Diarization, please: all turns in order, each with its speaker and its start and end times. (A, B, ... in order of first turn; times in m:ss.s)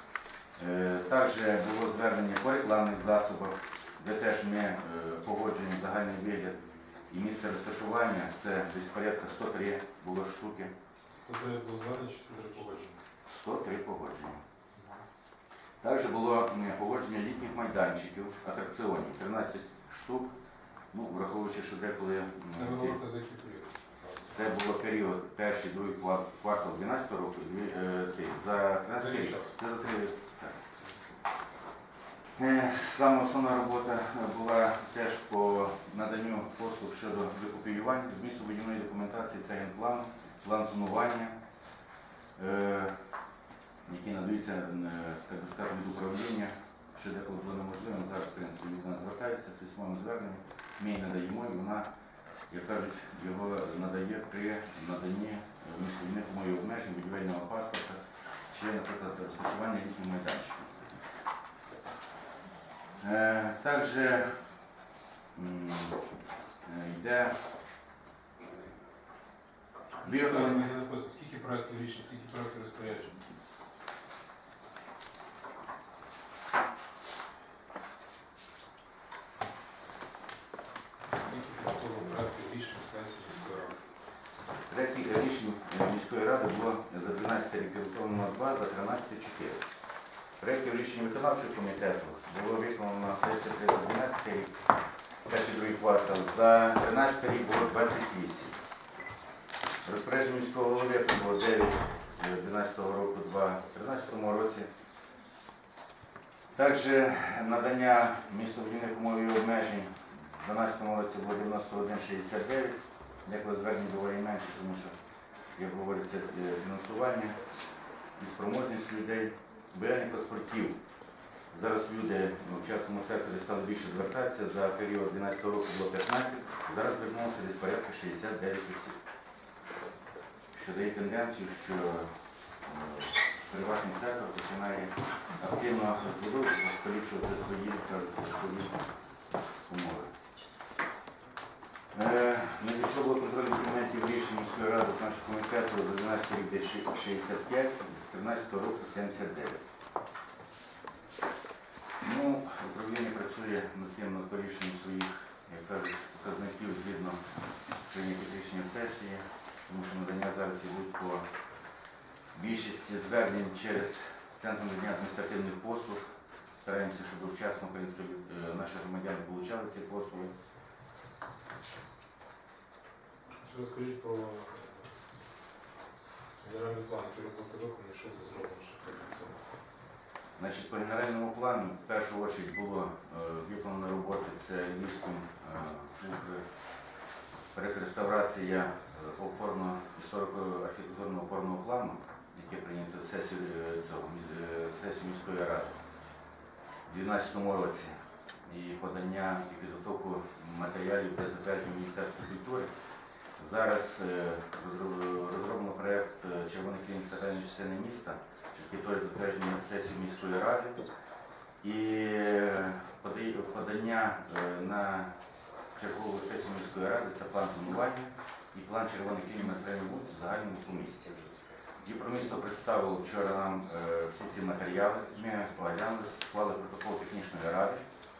0:00.6-0:10.7 A
0:11.2-0:13.0 B
0:13.3-0:14.4 A
0:15.8-0:20.4 A
0:20.9-0:23.0 A
0:22.5-0:24.5 B
0:24.3-0:30.6 A
0:29.0-0:29.6 B
0:32.4-0:41.4 A
0:42.4-0:43.1 A
0:43.8-0:51.8 A
0:52.5-1:01.0 A
1:03.0-1:04.5 A
1:05.3-1:06.1 A
1:06.6-1:07.4 A
1:10.0-1:10.7 A
1:10.0-1:13.2 B
1:21.2-1:23.8 B
1:24.7-1:29.6 A
1:30.4-1:34.6 A
1:35.2-1:38.6 A
1:39.8-1:44.7 A
1:46.6-1:54.9 A
1:55.6-1:57.4 A
1:58.2-2:00.8 A
2:01.5-2:09.0 A
2:10.5-2:18.8 A
2:19.7-2:20.1 A
2:21.9-2:29.6 A
2:32.0-2:37.2 A
2:37.8-2:41.2 A
2:42.3-2:46.1 A
2:46.6-2:50.4 A
2:53.4-2:54.9 B
2:56.4-2:59.4 B
3:00.4-3:06.5 A
3:07.5-3:15.8 A
3:16.9-3:22.7 A
3:23.4-3:30.8 A
3:31.6-3:35.1 A
3:35.8-3:41.2 A
3:41.8-3:47.9 A